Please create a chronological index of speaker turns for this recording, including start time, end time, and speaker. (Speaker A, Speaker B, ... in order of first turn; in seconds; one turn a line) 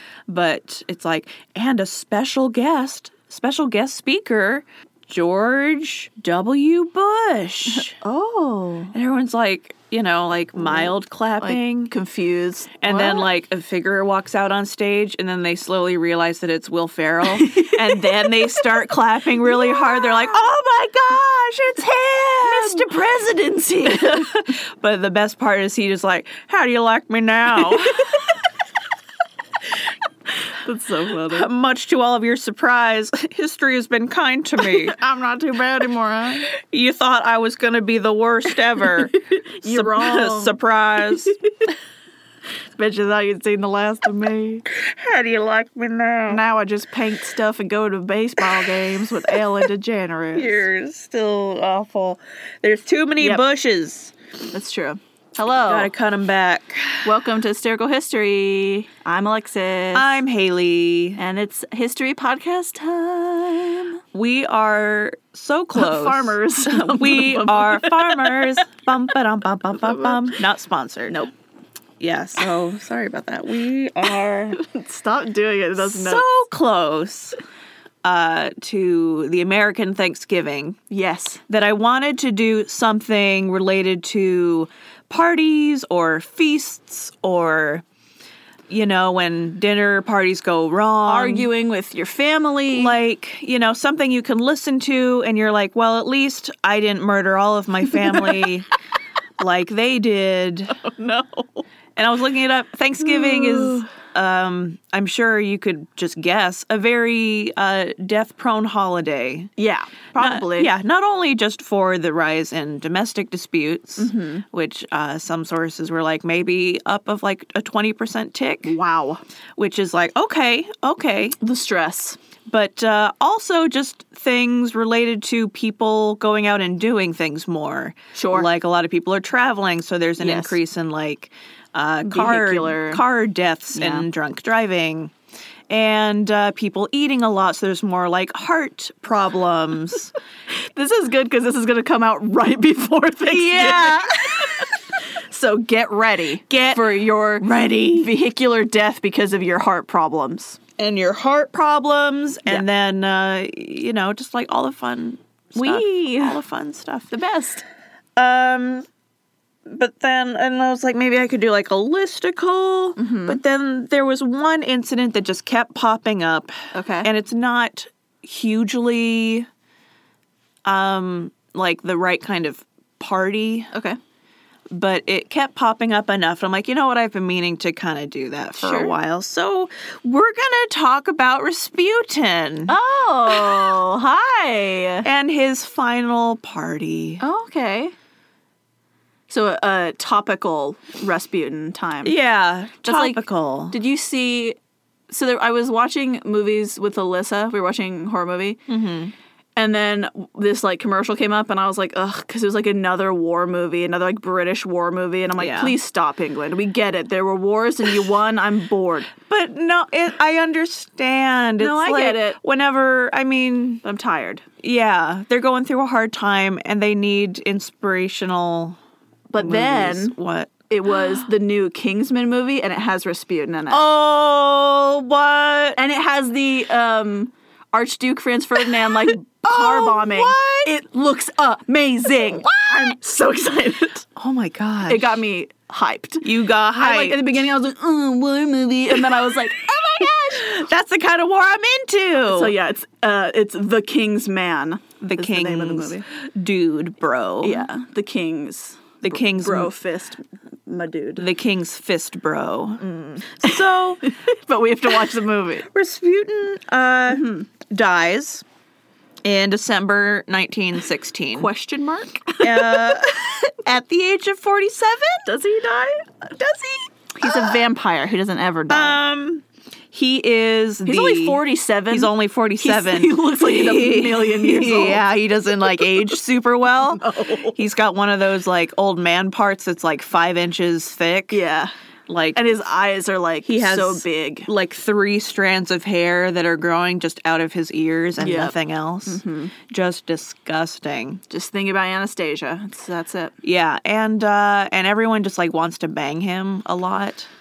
Speaker A: 0.3-8.0
Speaker B: 7.8-8.9
Speaker A: 8.9-11.9
Speaker B: 11.4-13.3
Speaker A: 12.8-22.9
Speaker B: 17.3-18.8
Speaker B: 19.4-20.4
Speaker B: 22.4-24.3
Speaker A: 23.8-28.2
Speaker B: 30.4-31.5
Speaker A: 31.3-35.0
Speaker B: 34.6-36.5
Speaker A: 36.5-41.4
Speaker B: 38.9-40.5
Speaker B: 41.3-41.7
Speaker B: 42.8-44.6
Speaker A: 44.7-46.4
Speaker B: 46.3-50.6
Speaker A: 48.4-49.4
Speaker A: 50.4-54.1
Speaker B: 54.5-55.9
Speaker A: 55.7-57.1
Speaker B: 57.0-60.2
Speaker A: 59.9-61.2
Speaker B: 61.2-64.0
Speaker A: 64.1-71.2
Speaker B: 65.8-68.6
Speaker A: 72.0-74.6
Speaker B: 74.5-76.2
Speaker A: 75.8-77.4
Speaker A: 78.0-80.8
Speaker B: 80.9-81.4
Speaker A: 81.5-87.8
Speaker A: 88.7-91.5
Speaker B: 91.0-93.0
Speaker A: 92.7-98.7
Speaker B: 98.1-98.4
Speaker A: 99.4-100.8
Speaker B: 100.7-101.6
Speaker A: 102.0-109.5
Speaker B: 103.0-103.9
Speaker B: 109.6-110.7
Speaker A: 110.2-118.7
Speaker B: 114.0-114.4
Speaker B: 118.7-119.2
Speaker A: 119.6-121.4
Speaker B: 121.4-122.2
Speaker A: 122.5-135.1
Speaker B: 128.2-128.5
Speaker B: 130.2-130.6
Speaker B: 132.1-133.0
Speaker B: 133.7-134.1
Speaker A: 135.7-140.1
Speaker B: 140.5-150.6
Speaker A: 143.3-144.7
Speaker A: 146.5-146.9
Speaker A: 147.4-148.1
Speaker A: 150.8-157.1
Speaker B: 155.6-156.4
Speaker B: 157.1-157.6
Speaker A: 158.2-158.9
Speaker A: 159.7-169.5
Speaker B: 163.0-163.4
Speaker B: 166.7-167.1
Speaker A: 170.7-173.7
Speaker B: 173.7-174.0
Speaker A: 174.7-182.8
Speaker B: 178.5-179.0
Speaker B: 182.7-185.1
Speaker A: 185.0-187.2
Speaker B: 187.2-187.9
Speaker B: 189.3-192.2
Speaker A: 192.0-193.8
Speaker B: 192.8-194.6
Speaker B: 195.1-198.6
Speaker A: 198.7-199.1
Speaker B: 199.6-209.1
Speaker A: 205.4-205.8
Speaker A: 209.2-213.8
Speaker B: 211.6-212.4
Speaker B: 213.8-214.4
Speaker A: 214.6-218.8
Speaker B: 219.3-220.2
Speaker A: 219.4-221.2
Speaker B: 220.7-223.8
Speaker A: 223.7-225.8
Speaker B: 225.8-234.1
Speaker A: 229.4-230.7
Speaker A: 232.2-233.0
Speaker A: 234.2-235.2
Speaker B: 234.9-240.6
Speaker A: 236.2-237.3
Speaker A: 239.0-242.5
Speaker B: 242.2-246.0
Speaker A: 245.0-247.7
Speaker B: 247.4-251.3
Speaker A: 249.0-249.7
Speaker A: 251.2-252.8
Speaker B: 252.8-255.7
Speaker A: 253.4-254.1
Speaker A: 255.7-258.4
Speaker B: 257.1-257.5
Speaker A: 259.2-261.5
Speaker B: 261.4-263.4
Speaker A: 262.4-265.3
Speaker B: 265.3-269.0
Speaker A: 267.2-267.6
Speaker A: 268.7-281.4
Speaker B: 270.9-275.0
Speaker B: 276.9-277.6
Speaker B: 281.3-281.7
Speaker A: 282.1-282.4
Speaker B: 282.4-284.5
Speaker A: 283.4-291.2
Speaker B: 288.2-289.5
Speaker B: 291.3-293.3
Speaker A: 293.4-297.3